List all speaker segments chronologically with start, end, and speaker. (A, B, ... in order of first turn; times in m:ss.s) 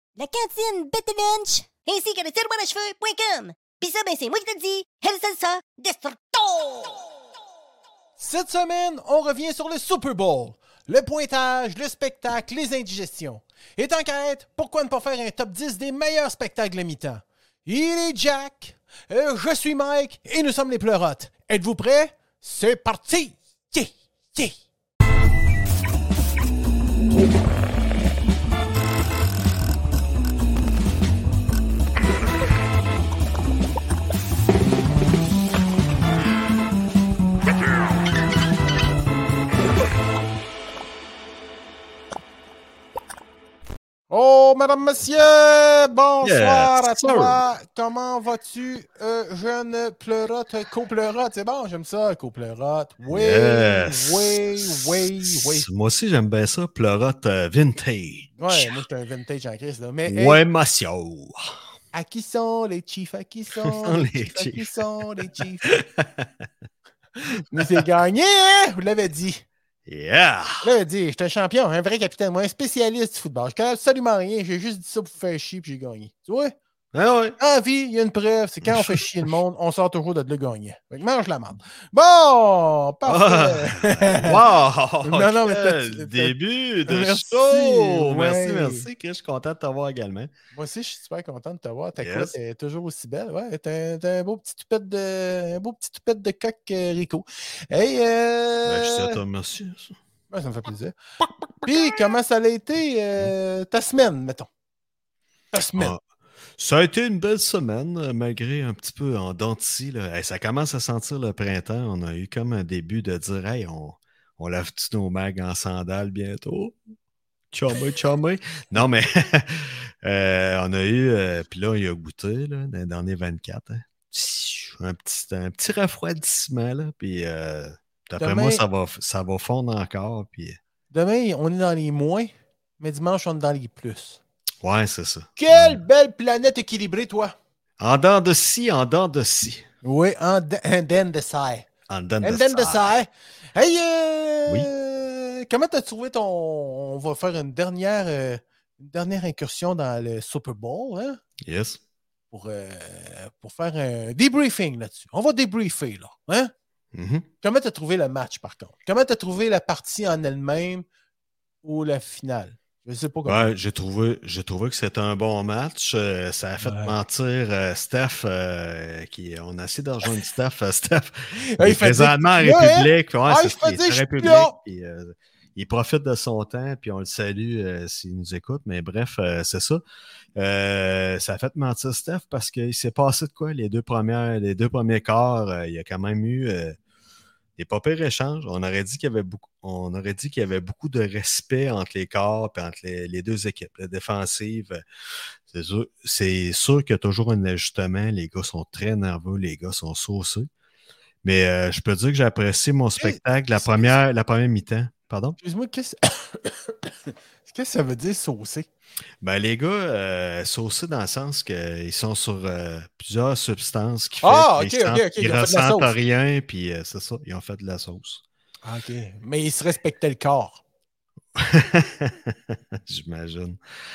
0:00.2-0:07.0 A
0:08.2-0:24.6 B
0:44.1-0:55.7 B
0:46.2-0:47.4 C
0:53.1-0:58.8 C
0:58.4-1:00.4 B
1:00.1-1:01.6 C
1:01.9-1:05.8 B
1:03.6-1:04.8 C
1:05.6-1:06.3 C
1:07.2-1:09.4 B
1:09.9-1:10.6 C
1:10.6-1:16.6 B
1:16.9-1:17.4 C
1:17.4-1:24.4 B
1:18.6-1:19.0 C
1:23.0-1:30.3 C
1:25.0-1:26.3 B
1:26.9-1:28.9 B
1:30.5-1:39.2 B
1:32.0-1:32.3 C
1:38.7-1:40.0 C
1:40.3-1:41.0 B
1:41.6-1:44.5 B
1:45.5-1:45.9 B
1:45.8-1:46.0 C
1:46.6-1:56.8 C
1:57.5-2:10.6 C
2:08.2-2:08.6 B
2:10.9-2:14.2 B
2:14.6-2:15.8 C
2:15.4-2:17.3 B
2:17.8-2:19.6 C
2:19.8-2:21.7 B
2:21.9-2:22.9 C
2:22.2-2:31.2 B
2:31.4-2:31.8 C
2:32.3-2:36.5 B
2:36.9-2:37.2 C
2:37.4-2:40.8 B
2:41.6-2:43.5 B
2:43.2-2:59.8 C
2:46.6-2:46.9 B
2:51.4-2:54.5 B
3:00.4-3:06.8 C
3:07.6-3:14.8 C
3:15.5-3:20.5 C
3:21.2-3:25.4 C
3:23.0-3:23.9 B
3:25.4-3:28.7 B
3:29.2-3:38.2 C
3:34.2-3:35.9 B
3:38.6-3:40.6 B
3:41.3-3:43.6 C